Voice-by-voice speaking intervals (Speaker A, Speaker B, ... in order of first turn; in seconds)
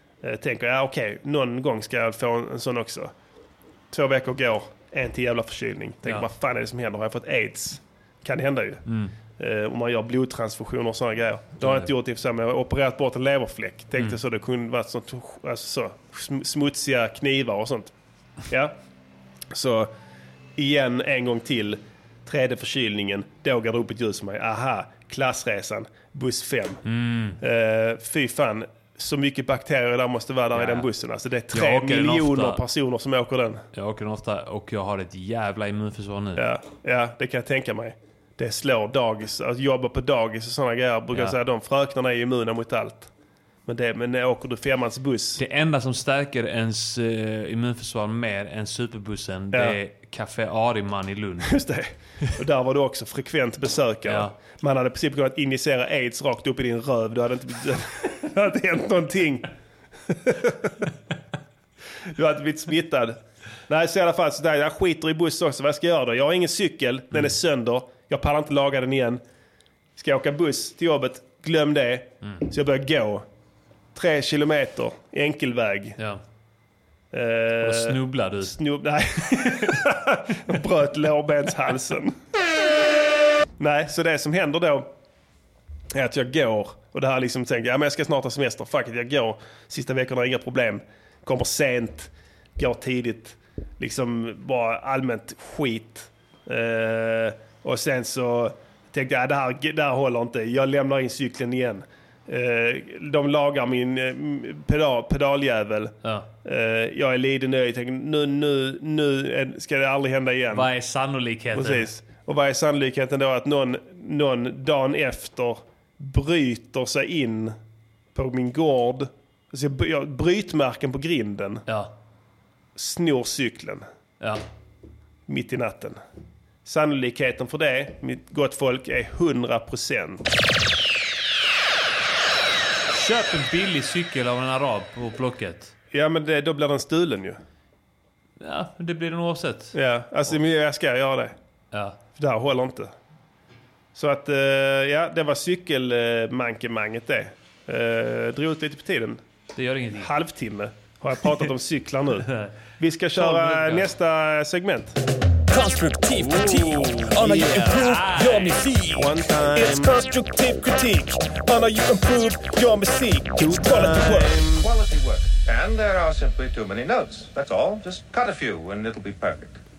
Speaker A: 0.2-3.1, 3.9-8.8, 9.4-17.9, 18.5-18.7, 19.5-19.9, 20.6-26.8, 27.4-33.6, 36.4-43.1, 43.7-45.4, 49.5-49.8, 51.4-59.5, 60.1-60.9, 62.1-69.2, 70.0-73.2, 73.9-76.0, 77.1-82.2, 83.6-84.9, 85.9-110.7, 111.5-117.5, 118.1-121.6, 122.8-123.8, 125.3-126.0, 126.6-130.3, 135.9-137.4, 139.7-141.3, 142.2-142.9, 143.9-149.2, 149.9-155.0, 156.3-157.8, 158.9-160.0, 163.4-164.7
Speaker B: 8.9-9.1, 11.6-11.9, 26.8-27.4, 30.5-30.9, 31.5-32.6, 33.7-36.4, 45.4-51.6, 54.0-54.3, 77.6-78.5, 106.0-106.3, 110.5-111.9, 121.7-121.9, 132.9-135.7, 138.4-139.7, 141.7-142.0, 149.5-150.1, 152.3-152.5, 153.1-153.9, 156.3-158.6
Speaker C: 155.5-156.0, 157.2-159.0, 159.6-164.3
Speaker D: 164.5-169.6